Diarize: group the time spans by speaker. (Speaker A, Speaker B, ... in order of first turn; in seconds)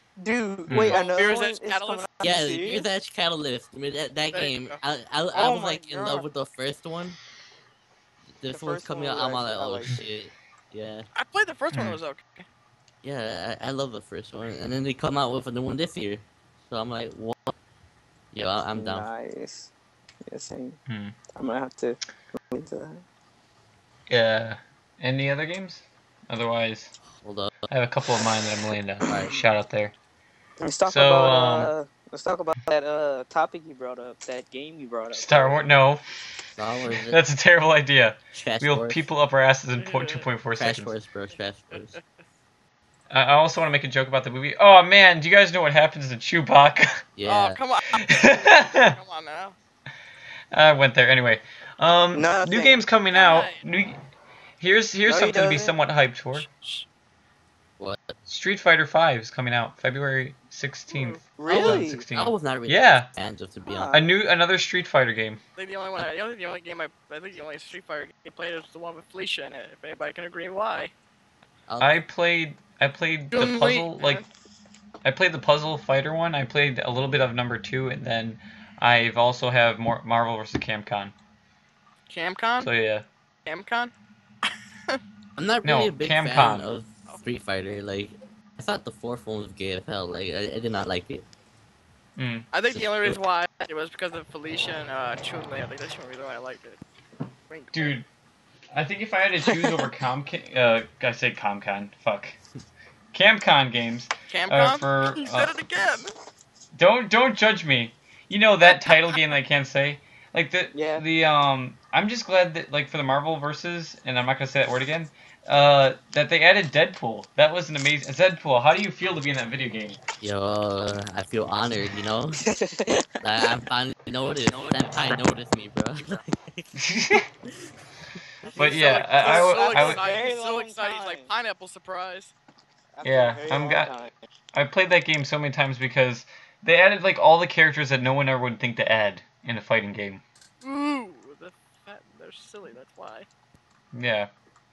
Speaker A: 0.2-2.8, 5.3-6.2, 8.5-10.0, 18.7-19.7, 20.3-20.8, 21.4-23.0, 30.6-35.6, 52.1-52.8, 55.0-55.7, 61.4-62.0, 63.6-64.1, 99.5-99.9, 110.7-111.0, 122.4-123.6, 124.5-125.0, 128.4-131.3, 132.9-134.3
Speaker B: 0.7-1.0, 11.7-12.0, 20.9-21.1, 24.1-26.9, 27.7-29.9, 30.8-31.7, 35.1-36.0, 36.9-40.9, 43.1-47.0, 47.9-48.9, 50.5-54.0, 54.6-56.5, 58.3-63.1, 63.9-65.4, 71.8-74.2, 75.0-81.1, 82.6-83.0, 85.6-86.7, 92.2-92.5, 97.7-98.0, 98.7-102.4, 103.1-105.5, 106.7-120.0, 126.7-127.3, 128.6-130.0, 133.0-133.9, 134.5-140.2, 143.9-144.3
Speaker C: 0.9-2.0, 4.3-4.8, 11.1-12.4, 39.7-40.2, 41.7-42.0, 47.2-49.5, 53.1-53.6, 56.4-56.9, 60.9-61.2, 65.6-70.9, 73.3-74.2, 82.1-82.7, 83.4-83.9, 84.4-85.0, 92.5-96.8, 97.5-98.0, 104.3-106.1, 128.6-132.3, 140.6-143.3
Speaker D: 2.2-7.2, 8.4-11.1, 13.0-17.6, 18.3-19.1, 27.2-27.7, 29.0-29.4, 36.5-37.2, 38.3-39.0, 40.5-42.0, 47.1-47.6, 57.8-58.1, 61.5-63.9, 71.7-72.0, 85.3-91.2, 92.7-93.2, 120.2-122.4, 123.2-126.7